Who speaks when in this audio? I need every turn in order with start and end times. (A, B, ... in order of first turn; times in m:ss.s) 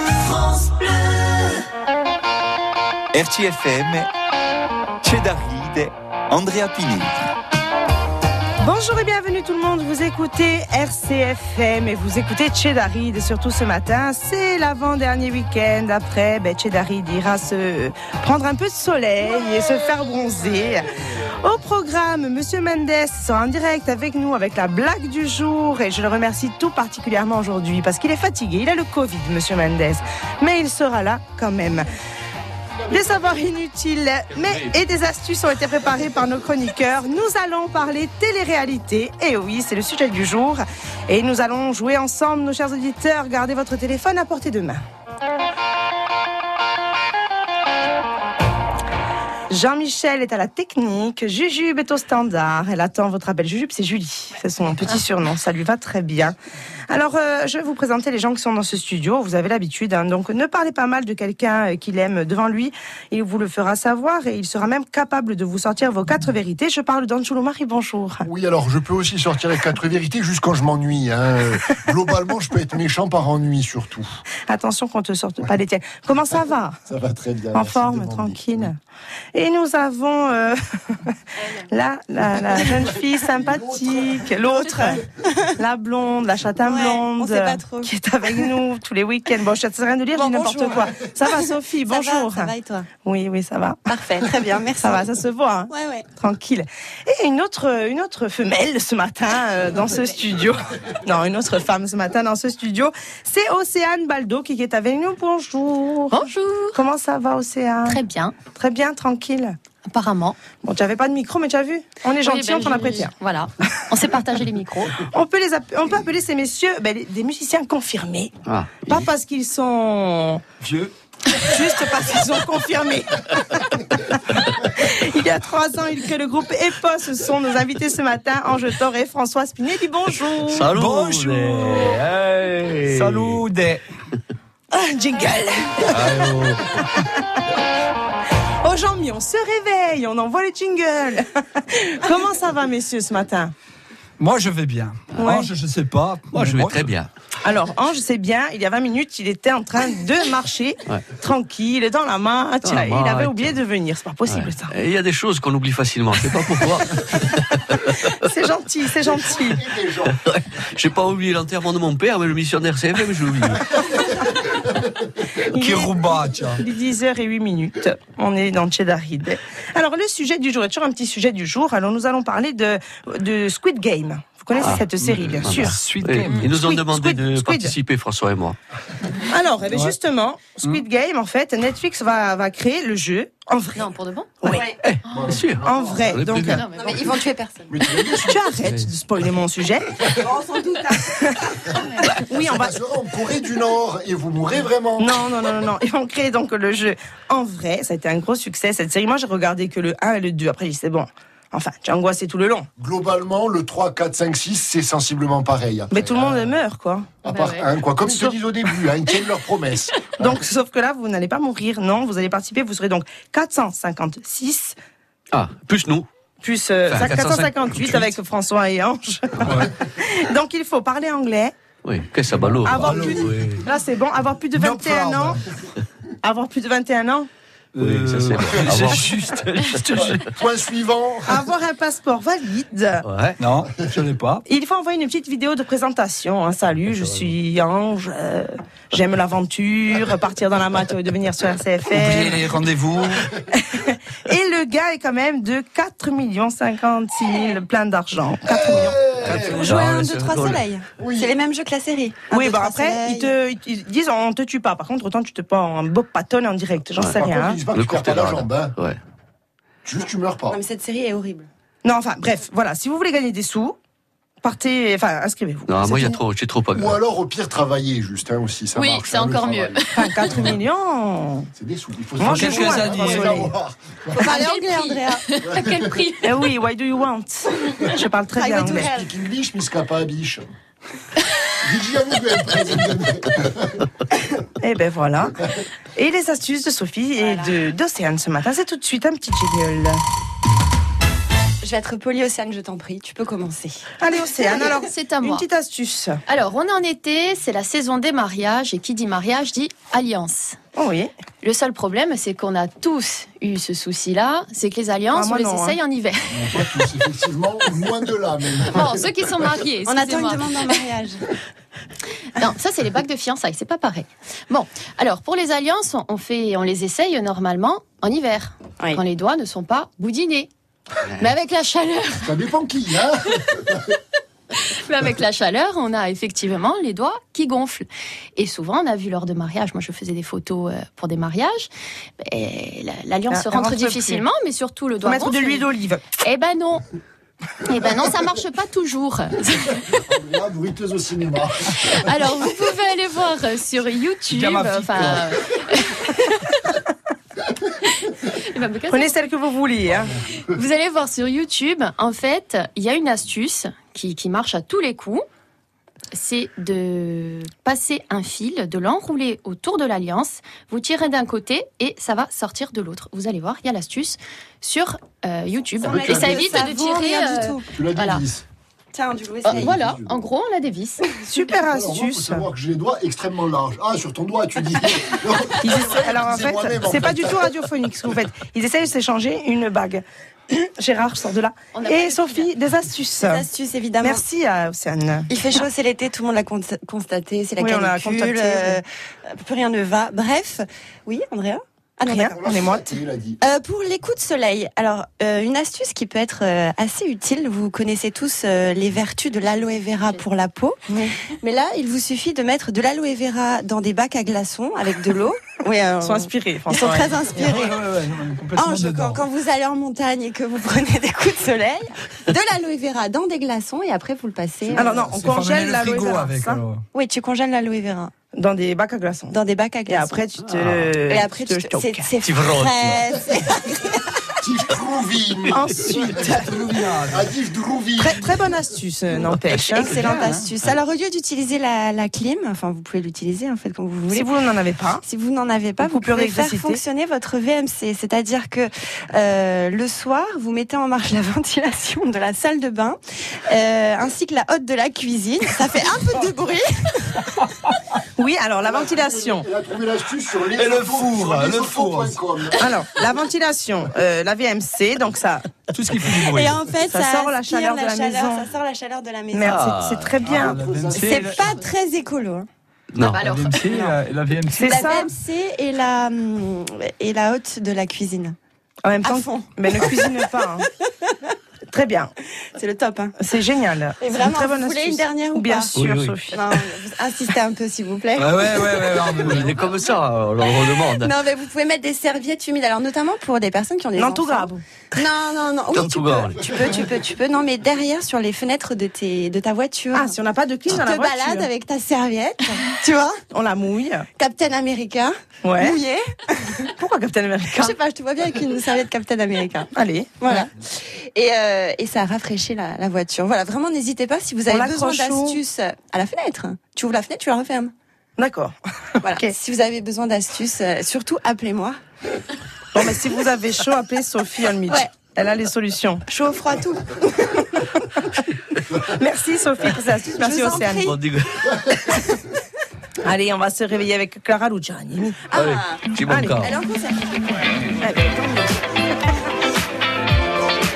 0:03.1-0:04.1 A
0:05.0-0:07.1 A
0:08.6-0:31.9 B
0:32.9-0:44.8 B
0:49.5-0:56.4 B
0:56.9-1:08.2 B
1:08.2-1:14.2 C
1:14.5-1:16.8 B
1:16.9-1:18.7 C
1:17.5-1:18.7 B
1:19.3-1:21.1 B
1:21.7-1:25.0 B
1:23.2-1:24.8 C
1:24.6-1:25.5 D
1:25.6-1:32.5 B
1:26.6-1:28.5 D
1:30.1-1:32.9 D
1:33.0-1:33.8 B
1:33.8-1:35.2 D
1:34.8-1:48.0 B
1:35.7-1:36.0 D
1:46.1-1:46.8 E
1:47.8-1:48.4 E
1:48.5-1:49.6 B
1:49.8-1:50.4 E
1:50.6-1:53.1 B
1:52.2-1:55.0 E
1:55.0-1:58.3 B
1:58.4-1:59.0 F
1:58.8-2:00.4 B
2:00.6-2:00.9 G
2:01.3-2:10.7 B
2:10.5-2:13.4 F
2:10.7-2:12.1 G
2:12.9-2:13.8 G
2:14.7-2:16.0 B
2:15.8-2:16.8 G
2:18.6-2:23.5 B
2:24.2-2:26.9 G
2:25.2-2:25.5 B
2:26.3-2:27.1 F
2:27.4-2:34.7 B
2:32.6-2:33.6 F
2:34.3-2:38.1 F
2:38.0-2:39.7 B
2:39.1-2:40.2 C
2:40.1-2:43.8 F
2:45.5-2:55.8 B
2:45.5-2:46.6 G
2:54.6-2:58.6 F
2:55.4-2:56.5 G
2:56.4-2:57.7 B
2:59.2-3:03.9 B
2:59.7-2:59.9 G
3:03.8-3:04.4 E
3:04.4-3:04.8 D
3:04.8-3:06.6 F
3:05.0-3:05.3 E
3:05.1-3:06.3 C
3:05.6-3:06.6 B
3:06.5-3:07.2 E
3:06.7-3:07.8 D
3:07.7-3:08.4 C
3:08.2-3:10.0 B
3:10.2-3:12.2 D
3:11.1-3:11.4 B
3:12.1-3:12.8 B
3:12.5-3:15.2 C
3:15.0-3:22.7 B
3:22.8-3:26.6 C
3:25.9-3:27.1 B
3:27.2-3:30.4 C
3:27.2-3:27.7 E
3:28.0-3:28.3 B
3:30.2-3:34.7 B
3:35.3-3:36.1 F
3:36.4-3:41.5 B
3:36.9-3:38.1 F
3:39.4-3:39.7 G
3:41.8-3:43.6 F
3:42.6-3:45.4 B
3:42.7-3:43.2 G
3:44.5-3:45.4 G
3:46.2-3:47.3 B
3:47.7-3:50.2 G
3:47.8-3:50.2 F
3:50.2-3:51.5 C
3:51.2-3:53.0 B
3:53.0-3:53.4 F
3:53.4-3:54.4 G
3:54.5-4:02.4 B
3:56.9-3:57.3 F
4:01.9-4:03.3 G
4:03.5-4:09.0 B
4:08.5-4:09.8 C
4:09.2-4:10.6 F
4:09.2-4:13.3 D
4:11.0-4:11.3 C
4:12.3-4:17.6 B
4:17.1-4:18.7 C
4:17.7-4:19.0 F
4:19.8-4:20.6 C
4:20.5-4:21.5 D
4:21.8-4:23.8 B
4:24.4-4:26.2 B
4:25.7-4:27.0 F
4:26.7-4:30.6 C
4:28.7-4:30.3 E
4:29.9-4:31.5 B
4:31.6-4:34.2 C
4:32.2-4:33.5 B
4:32.2-4:33.4 G
4:34.2-4:35.2 D
4:34.2-4:36.3 E
4:35.5-4:36.0 C
4:36.2-4:38.9 B
4:38.3-4:39.1 D
4:38.6-4:40.4 C
4:41.6-4:43.8 C
4:44.6-4:45.4 B
4:46.0-4:50.0 B
4:47.2-4:47.5 D
4:51.6-4:53.8 D
4:54.0-4:56.2 B
4:54.7-4:55.4 E
4:56.3-5:00.6 E
5:00.8-5:01.1 B
5:01.4-5:06.7 E
5:05.1-5:05.8 B
5:06.3-5:09.0 C
5:08.6-5:10.8 E
5:09.8-5:11.2 D
5:12.4-5:20.5 E
5:21.2-5:22.3 E
5:22.2-5:23.9 C
5:24.5-5:36.8 E
5:33.3-5:34.2 B
5:35.0-5:36.0 B
5:37.6-5:40.0 E
5:39.8-5:42.0 C
5:41.8-5:46.7 E
5:44.3-5:45.3 G
5:47.8-5:49.3 E
5:48.9-5:50.1 B
5:50.4-5:55.2 E
5:56.1-6:08.2 E
6:05.8-6:06.7 C
6:05.8-6:07.6 D
6:07.7-6:08.4 C
6:08.9-6:09.8 D
6:09.4-6:10.2 C
6:09.4-6:11.0 E
6:11.2-6:12.4 B
6:11.6-6:17.6 C
6:15.6-6:23.4 B
6:21.7-6:22.5 E
6:23.2-6:24.2 D
6:24.0-6:25.3 B
6:25.3-6:32.3 D
6:27.6-6:28.8 B
6:32.0-6:33.0 B
6:32.3-6:33.4 C
6:33.4-6:47.8 D
6:40.9-6:41.1 B
6:46.0-6:47.4 B
6:47.3-6:49.2 G
6:48.6-6:54.9 D
6:54.7-6:56.6 B
6:54.9-6:56.8 G
6:56.9-6:58.1 D
6:58.4-7:02.1 B
6:59.3-7:00.2 D
7:00.5-7:00.9 F
7:01.0-7:04.4 D
7:02.2-7:03.0 F
7:04.4-7:06.4 C
7:05.5-7:06.4 B
7:05.9-7:07.3 G
7:07.0-7:08.5 C
7:08.0-7:10.3 B
7:09.5-7:14.3 D
7:09.9-7:10.4 G
7:14.1-7:15.0 B
7:15.0-7:27.2 D
7:15.8-7:16.8 B
7:28.2-7:29.5 B
7:28.6-7:32.6 C
7:30.5-7:32.2 G
7:32.6-7:35.4 B
7:35.7-7:36.6 G
7:36.0-7:39.6 D
7:36.9-7:38.4 B
7:39.3-7:40.6 B
7:39.4-7:40.2 F
7:40.2-7:41.4 G
7:40.2-7:41.4 C
7:40.9-7:42.5 D
7:42.9-7:43.2 F
7:43.0-7:44.0 E
7:43.1-7:44.9 G
7:44.5-7:45.1 B
7:44.6-7:48.4 D
7:48.8-7:50.6 B
7:49.0-7:50.1 D
7:51.7-7:52.1 B
7:52.5-7:53.1 D
7:53.2-7:56.4 B
7:54.0-7:55.7 D
7:55.8-7:56.2 F
7:56.3-7:59.4 D
7:58.2-7:59.5 G
7:59.2-8:01.1 F
8:00.9-8:10.1 D
8:04.0-8:04.6 B
8:05.7-8:06.5 F
8:09.9-8:11.5 B
8:10.7-8:13.2 D
8:13.3-8:14.1 B
8:14.2-8:16.7 D
8:15.4-8:15.8 B
8:16.5-8:17.7 B
8:17.5-8:27.7 D
8:19.7-8:20.4 B
8:24.5-8:25.4 B
8:28.2-8:29.3 B
8:29.0-8:31.8 D
8:32.7-8:36.0 B
8:36.1-8:37.3 D
8:38.9-8:40.9 B
8:39.7-8:41.0 D
8:40.6-8:42.0 F
8:43.0-8:45.2 B
8:45.3-8:45.9 D
8:45.3-8:46.5 F
8:46.1-8:46.5 B
8:46.4-8:47.2 D
8:47.8-8:48.7 B